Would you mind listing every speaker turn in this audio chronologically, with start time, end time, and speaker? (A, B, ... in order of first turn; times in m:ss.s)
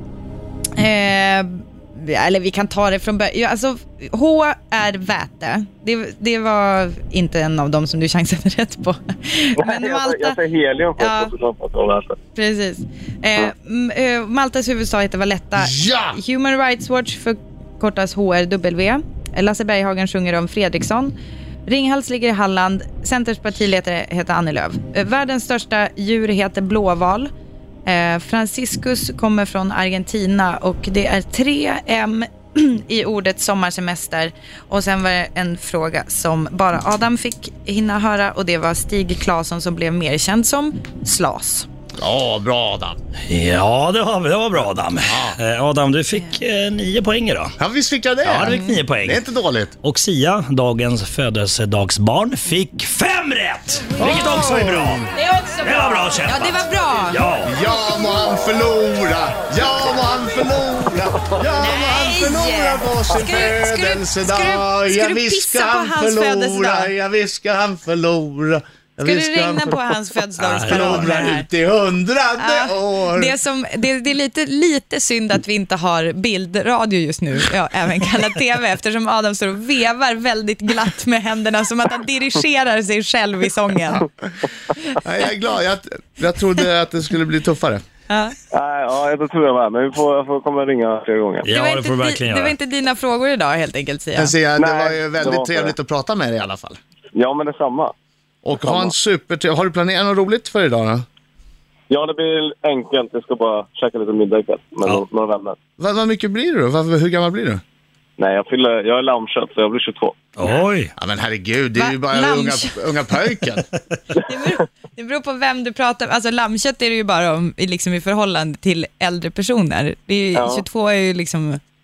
0:00.8-0:10.4 A
0:09.6-0:12.2 B
0:11.0-0:11.3 A
0:12.3-0:21.1 A
0:15.6-0:16.2 C
0:21.6-0:27.3 A
0:27.9-0:41.7 A
0:42.0-0:43.0 C
0:43.3-0:47.6 D
0:45.0-0:45.4 C
0:47.6-0:49.8 C
0:48.2-0:49.2 D
0:48.5-0:48.8 A
0:49.8-0:55.1 D
0:54.0-0:55.1 C
0:55.2-0:57.2 A
0:55.6-0:57.5 D
0:57.4-1:09.8 C
1:01.6-1:06.9 A
1:09.0-1:11.5 A
1:10.4-1:11.2 D
1:10.6-1:13.3 C
1:12.4-1:24.1 A
1:24.9-1:27.8 C
1:28.1-1:28.4 A
1:28.5-1:31.4 B
1:31.4-1:32.6 D
1:31.4-1:34.3 A
1:34.2-1:36.8 C
1:34.6-1:35.7 B
1:37.1-1:37.9 B
1:38.4-1:41.0 C
1:38.6-1:38.9 B
1:41.9-1:45.6 B
1:45.8-1:47.6 C
1:48.2-1:50.2 B
1:50.4-1:50.9 D
1:51.0-1:53.7 C
1:51.8-1:53.0 A
1:54.2-2:01.6 A
2:00.3-2:00.6 B